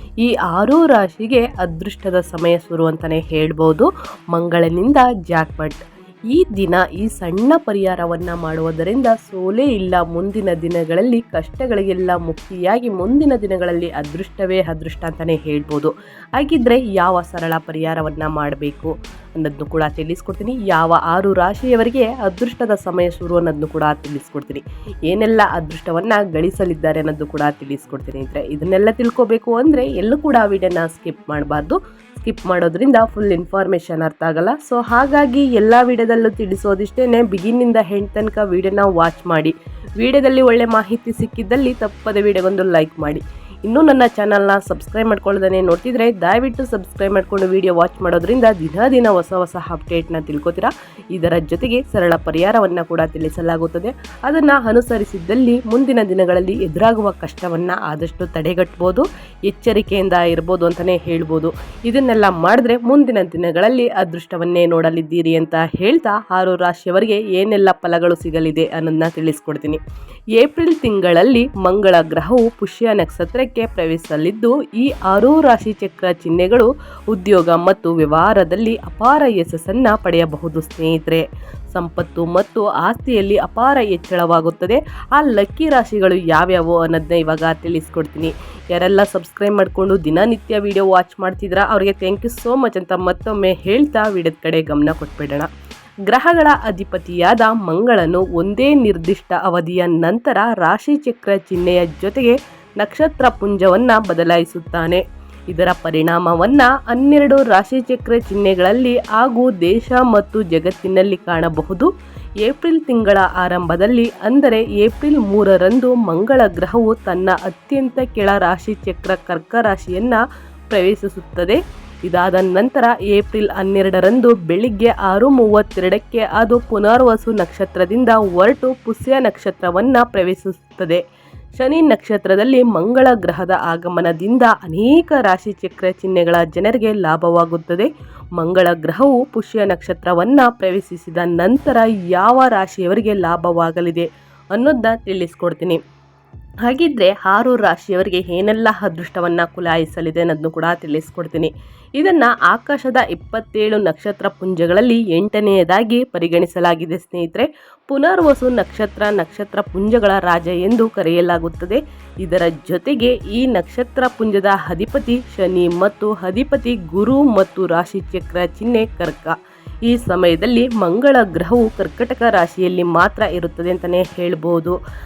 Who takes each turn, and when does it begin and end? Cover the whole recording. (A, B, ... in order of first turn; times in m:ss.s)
0:00.2-1:09.8 A
1:10.4-1:35.5 A
1:36.1-1:51.9 A
1:52.4-2:11.0 A
2:11.6-2:25.8 A
2:26.6-2:54.8 A